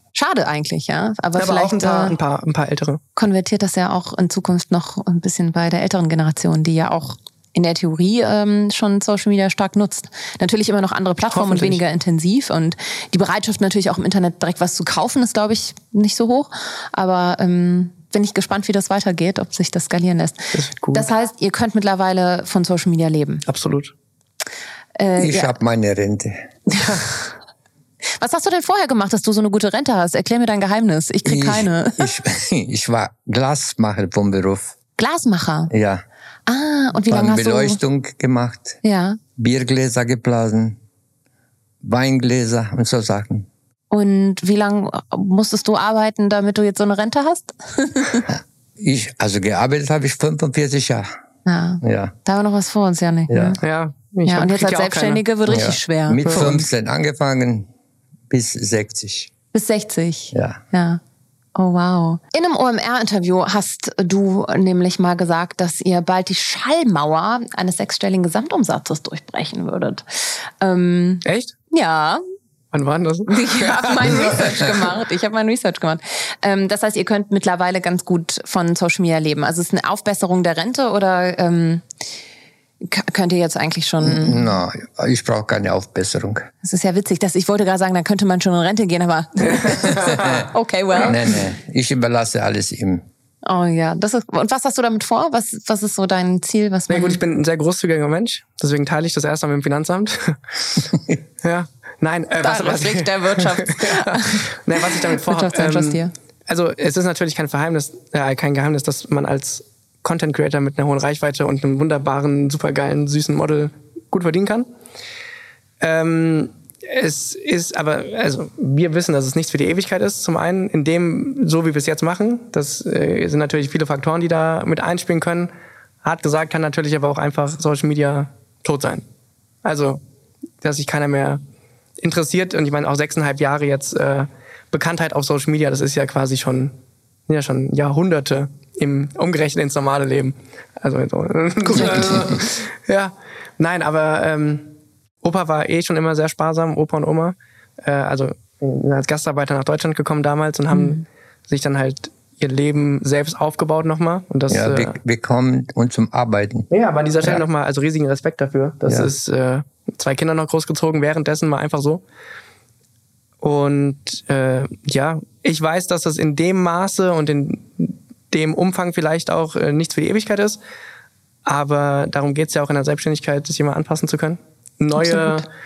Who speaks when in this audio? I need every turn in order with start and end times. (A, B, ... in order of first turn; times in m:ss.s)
0:00.2-0:02.2 A
0:01.4-0:03.0 B
0:03.2-0:23.4 A
0:11.3-0:11.8 B
0:20.5-0:21.1 B
0:23.4-0:23.9 B
0:25.0-0:25.6 A
0:25.2-0:26.5 C
0:26.7-0:27.3 A
0:28.2-0:32.1 A
0:31.2-0:34.8 C
0:35.0-0:35.7 A
0:35.7-0:36.0 C
0:36.5-0:37.8 A
0:37.1-0:38.8 C
0:38.8-0:39.2 A
0:39.4-0:40.8 C
0:41.8-0:43.5 C
0:43.9-0:48.3 A
0:48.3-0:51.1 C
0:51.5-0:53.6 A
0:51.8-0:52.1 C
0:53.3-0:53.6 C
0:53.6-0:55.2 B
0:54.3-0:56.7 A
0:55.5-0:57.7 C
0:58.3-0:59.3 C
0:59.5-1:01.0 A
1:00.3-1:00.6 C
1:01.6-1:12.2 A
1:11.2-1:11.5 B
1:12.7-1:14.6 B
1:13.3-1:21.9 A
1:22.8-1:24.5 A
1:24.0-1:26.5 C
1:26.6-1:31.4 A
1:29.4-1:31.1 B
1:31.0-1:33.0 C
1:33.4-1:37.2 A
1:36.9-1:40.4 B
1:40.9-1:41.2 C
1:41.4-1:54.7 B
1:42.4-1:46.1 A
1:55.8-2:05.5 B
2:06.0-2:09.0 B
2:09.6-2:10.0 B
2:10.6-2:11.4 B
2:12.0-2:16.8 B
2:17.3-2:35.0 B
2:30.7-2:31.0 A
2:34.5-2:36.7 C
2:36.7-2:42.0 B
2:43.4-2:50.6 B
2:51.5-2:55.4 B
2:55.0-2:55.4 A